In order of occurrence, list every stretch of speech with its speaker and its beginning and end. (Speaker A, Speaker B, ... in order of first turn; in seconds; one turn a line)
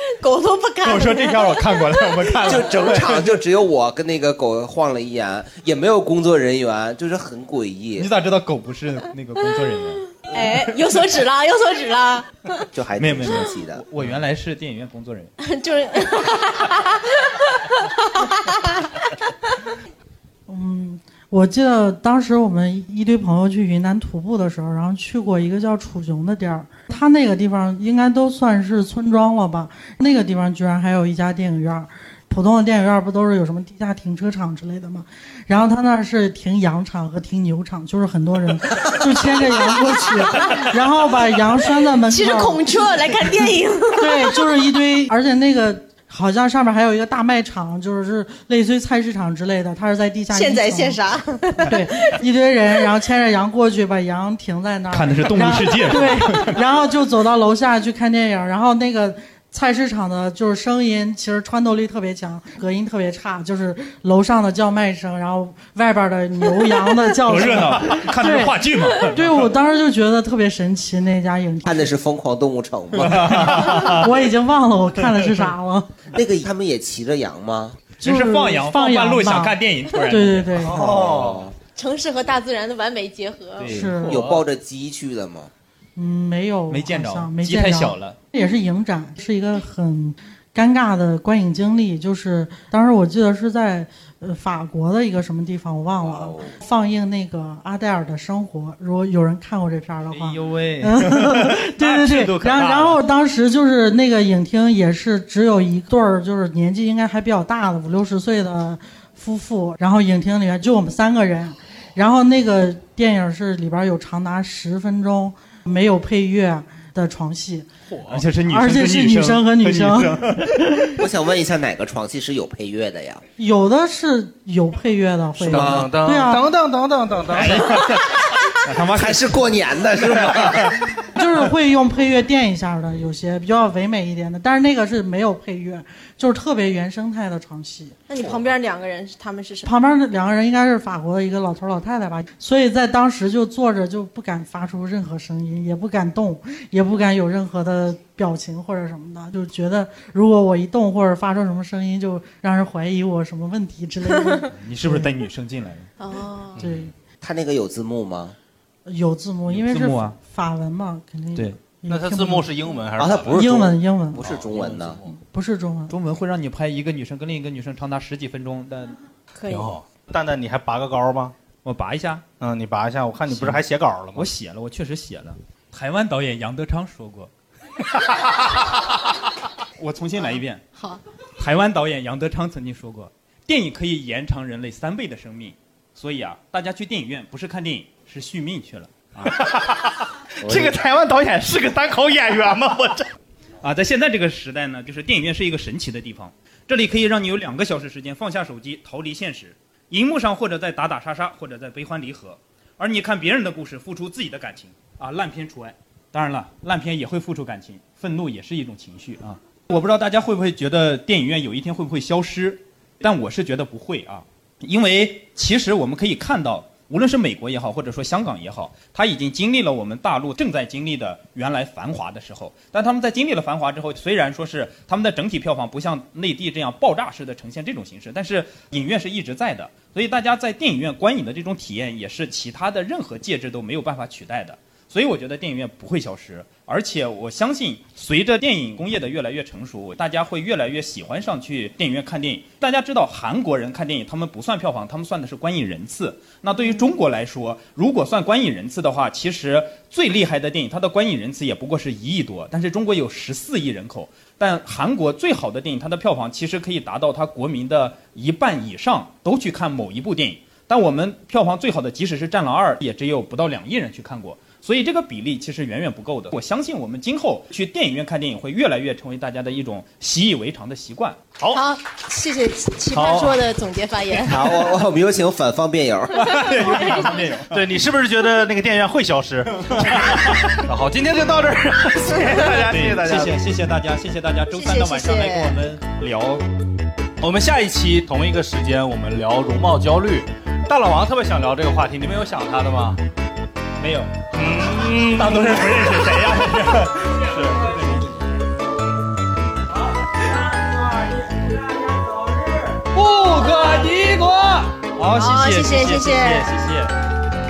Speaker A: 0.2-2.7
Speaker B: 0.8-3.3
Speaker C: 2.4-8.1
Speaker B: 8.0-10.1
Speaker A: 10.2-12.7
Speaker C: 12.7-13.8
Speaker B: 13.0-15.3
Speaker A: 15.4-19.1
Speaker D: 20.5-42.6
Speaker A: 42.1-44.3
Speaker D: 44.0-51.0
Speaker A: 50.3-52.2
Speaker D: 51.6-71.9
Speaker B: 54.9-56.6
Speaker B: 67.3-69.5
Speaker C: 71.7-73.9
Speaker B: 73.0-74.1
Speaker D: 73.7-75.9
Speaker C: 76.1-77.8
Speaker B: 78.0-80.5
Speaker D: 78.0-79.6
Speaker D: 80.1-80.9
Speaker E: 80.6-81.4
Speaker C: 80.7-81.5
Speaker A: 81.8-83.9
Speaker B: 83.6-84.0
Speaker D: 83.7-84.2
Speaker C: 84.1-85.5
Speaker E: 84.1-84.4
Speaker D: 86.0-117.7
Speaker B: 86.7-88.2
Speaker C: 96.0-96.5
Speaker B: 100.1-103.0
Speaker E: 117.9-118.2
Speaker B: 118.1-120.7
Speaker D: 118.5-120.5
Speaker C: 121.0-123.2
Speaker D: 123.4-126.5
Speaker E: 125.4-127.9
Speaker C: 125.5-125.9
Speaker B: 127.3-130.8
Speaker C: 128.9-130.8
Speaker D: 131.1-138.0
Speaker A: 138.1-139.7
Speaker D: 139.7-155.1
Speaker B: 154.6-155.9
Speaker A: 156.0-156.6
Speaker D: 156.6-156.9
Speaker C: 157.2-158.4
Speaker D: 158.9-162.5
Speaker B: 159.5-160.2
Speaker E: 161.9-163.5
Speaker C: 163.0-165.0
Speaker D: 163.3-164.2
Speaker E: 164.2-165.1
Speaker D: 165.1-165.9
Speaker B: 165.9-169.0
Speaker A: 169.3-169.8
Speaker E: 169.5-171.3
Speaker B: 171.7-172.2
Speaker E: 172.4-174.3
Speaker B: 173.3-173.6
Speaker B: 174.2-177.3
Speaker B: 179.8-180.7
Speaker B: 181.4-189.3
Speaker E: 189.2-193.1
Speaker B: 193.6-271.2
Speaker E: 271.4-271.6
Speaker A: 271.5-274.6
Speaker E: 272.9-273.4
Speaker C: 274.2-276.4
Speaker B: 276.1-277.6
Speaker A: 276.5-277.3
Speaker E: 277.5-283.4
Speaker B: 279.6-280.6
Speaker B: 282.4-286.4
Speaker A: 284.5-285.6
Speaker E: 287.2-293.0
Speaker B: 293.8-294.3
Speaker E: 294.3-296.2
Speaker B: 294.8-298.4
Speaker B: 302.7-306.9
Speaker A: 305.1-306.5